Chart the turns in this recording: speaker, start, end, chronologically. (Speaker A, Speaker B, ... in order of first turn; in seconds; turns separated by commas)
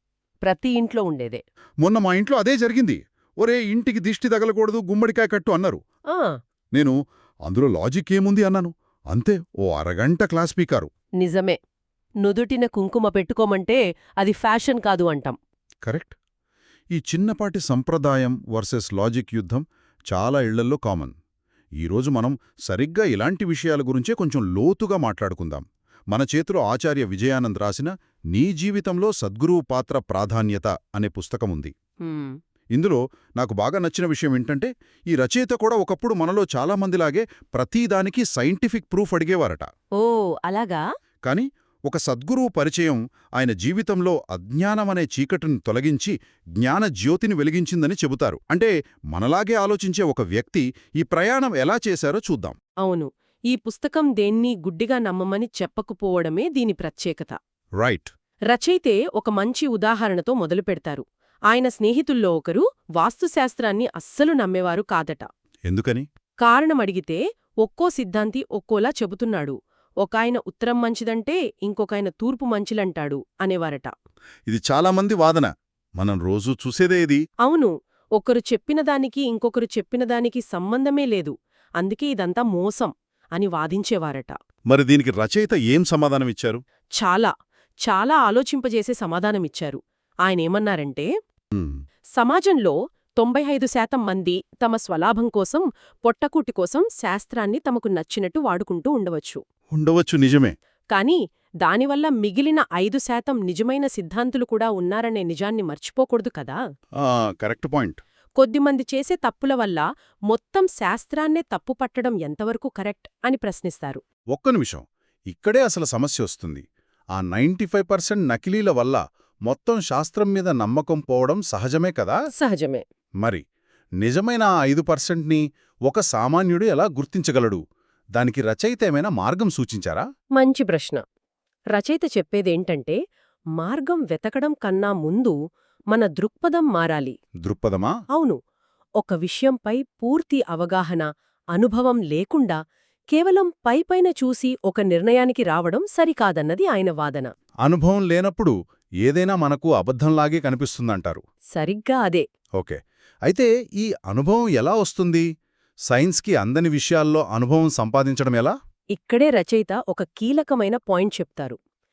Speaker A: 0.4-1.4, Speaker B: 1.8-5.8, Speaker B: 7.5-10.9, Speaker A: 11.2-11.6, Speaker A: 12.2-15.4, Speaker B: 15.8-16.2, Speaker B: 16.9-21.1, Speaker B: 21.8-31.7, Speaker A: 32.0-32.4, Speaker B: 32.7-39.7, Speaker A: 40.0-40.8, Speaker B: 41.2-52.6, Speaker A: 52.8-57.4, Speaker B: 57.8-58.1, Speaker A: 58.5-65.3, Speaker B: 65.7-66.0, Speaker A: 66.4-73.9, Speaker B: 74.5-77.2, Speaker A: 77.4-84.3, Speaker B: 84.7-86.6, Speaker A: 87.0-87.3, Speaker A: 87.8-91.1, Speaker A: 92.2-99.4, Speaker B: 99.7-100.5, Speaker A: 100.9-106.6, Speaker B: 107.0-108.0, Speaker A: 108.4-114.0, Speaker B: 114.3-116.6, Speaker B: 117.2-122.2, Speaker A: 122.4-122.8, Speaker B: 124.0-127.6, Speaker B: 128.2-130.0, Speaker A: 130.3-131.0, Speaker A: 131.7-133.0, Speaker A: 133.6-135.3, Speaker A: 135.9-137.2, Speaker B: 137.4-137.9, Speaker A: 139.0-142.6, Speaker A: 143.1-147.3, Speaker B: 147.6-151.2, Speaker A: 151.5-152.2, Speaker B: 152.6-155.3, Speaker B: 155.9-158.5, Speaker A: 158.9-161.6